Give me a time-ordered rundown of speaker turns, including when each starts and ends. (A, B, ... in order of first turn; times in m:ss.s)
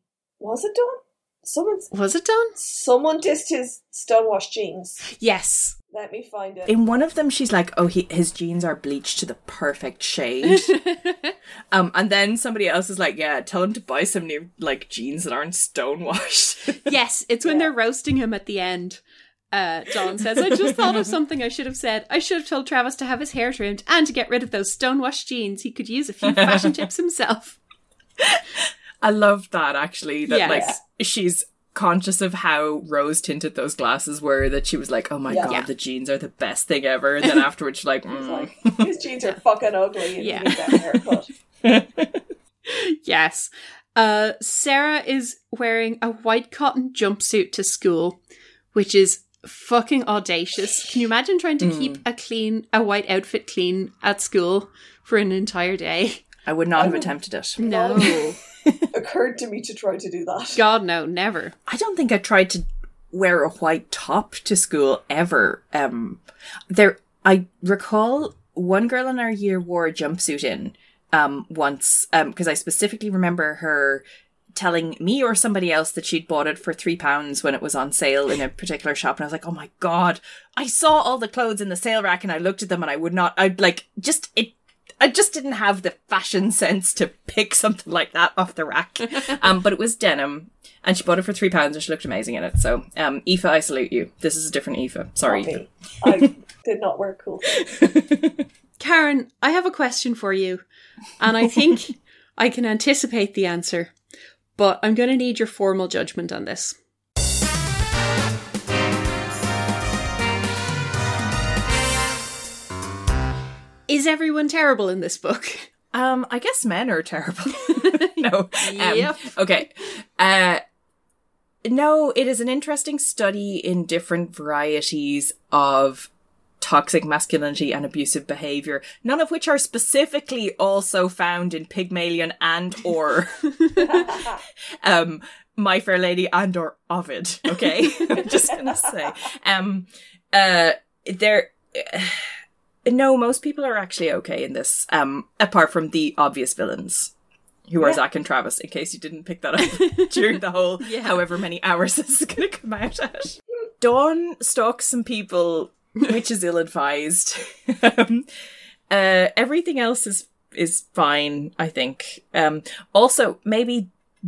0:00.4-0:01.9 A
0:01.9-0:02.6 B
0:02.6-0:05.0 A
0:05.0-0:05.7 B
0:05.9-0:06.7 A
0:06.7-0:10.7 C
0:10.5-0:11.3 B
0:11.7-0:16.8 C
0:16.8-0:19.0 B
0:17.4-0:17.7 A
0:19.5-0:27.6 B
0:20.6-0:21.0 C
0:26.3-0:26.7 C
0:29.0-0:38.9 C
0:30.3-0:30.7 B
0:30.5-0:30.8 A
0:35.3-0:35.5 A
0:35.4-0:35.7 B
0:38.1-0:41.3 A
0:40.2-0:40.6 B
0:41.6-0:42.2 C
0:42.6-0:48.2 B
0:48.7-0:56.2 B
0:51.6-0:52.0 C
0:56.4-0:58.9 C
0:56.8-0:58.4 A
0:57.6-0:58.4 B
0:58.9-1:00.6 A
1:00.5-1:01.5 B
1:01.7-1:14.0 C
1:14.5-1:36.3 C
1:35.2-1:37.6 A
1:37.6-1:38.4 C
1:38.8-1:40.6 B
1:41.2-1:43.9 B
1:44.6-1:46.8 B
1:53.9-1:55.7 B
1:55.9-2:00.6 C
1:58.6-1:59.4 B
2:01.6-2:06.1 C
2:06.6-2:22.3 C
2:22.8-2:27.1 C
2:27.7-2:38.3 C
2:29.7-2:30.1 B
2:30.8-2:31.2 B
2:38.9-2:43.9 C